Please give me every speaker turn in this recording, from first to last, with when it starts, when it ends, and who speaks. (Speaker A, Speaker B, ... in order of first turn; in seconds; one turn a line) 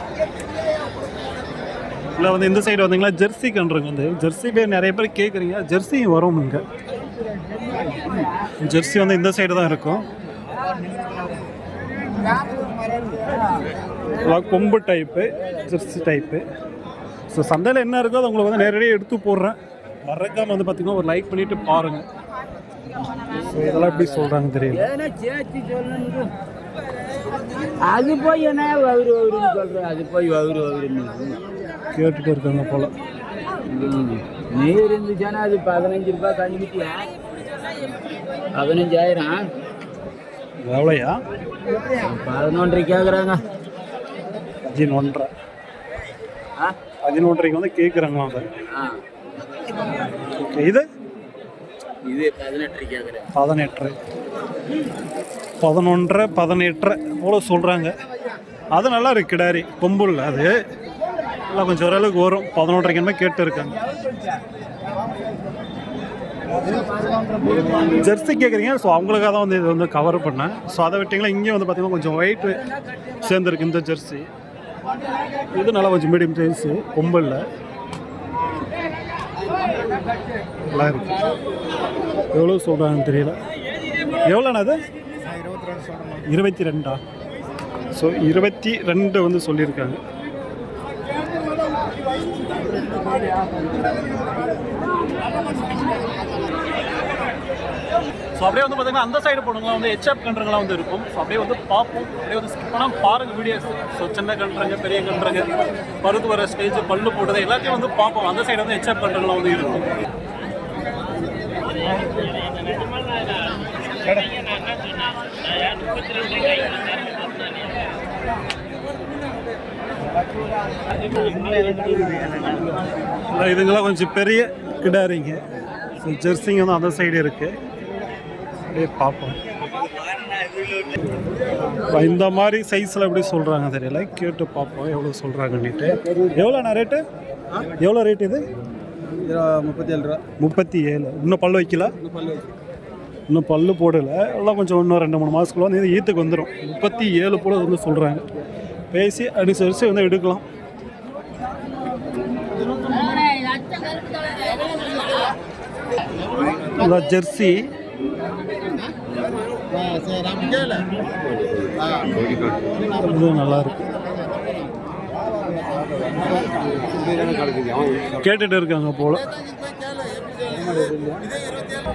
Speaker A: 2.1-6.6
Speaker A: 8.6-10.1
Speaker A: 14.1-16.4
Speaker A: 17.3-22.1
Speaker B: 23.4-26.3
Speaker A: 23.5-24.9
Speaker B: 27.8-31.4
Speaker A: 31.9-32.9
Speaker B: 33.7-37.1
Speaker B: 38.5-39.5
Speaker A: 40.6-41.2
Speaker B: 41.9-43.4
Speaker A: 44.6-45.3
Speaker A: 47.0-48.5
Speaker A: 50.3-50.9
Speaker B: 52.1-53.2
Speaker C: 52.2-53.2
Speaker A: 53.3-54.0
Speaker A: 55.6-57.9
Speaker A: 58.7-60.5
Speaker A: 61.5-63.8
Speaker A: 67.8-74.3
Speaker A: 75.5-77.4
Speaker A: 80.7-81.2
Speaker A: 82.3-83.4
Speaker A: 84.2-84.8
Speaker A: 86.2-87.0
Speaker A: 87.9-90.0
Speaker A: 98.3-109.9
Speaker C: 121.5-122.3
Speaker A: 123.3-125.4
Speaker A: 126.0-127.5
Speaker A: 128.7-129.4
Speaker A: 131.8-137.0
Speaker A: 137.7-138.4
Speaker C: 139.2-140.2
Speaker A: 140.4-141.9
Speaker C: 142.1-142.4
Speaker A: 143.3-148.2
Speaker A: 148.9-150.4
Speaker A: 156.7-157.7
Speaker C: 160.0-160.8
Speaker C: 161.6-162.8
Speaker A: 162.9-163.9
Speaker C: 165.7-168.2
Speaker A: 168.2-169.3
Speaker C: 170.7-171.3
Speaker B: 170.7-171.0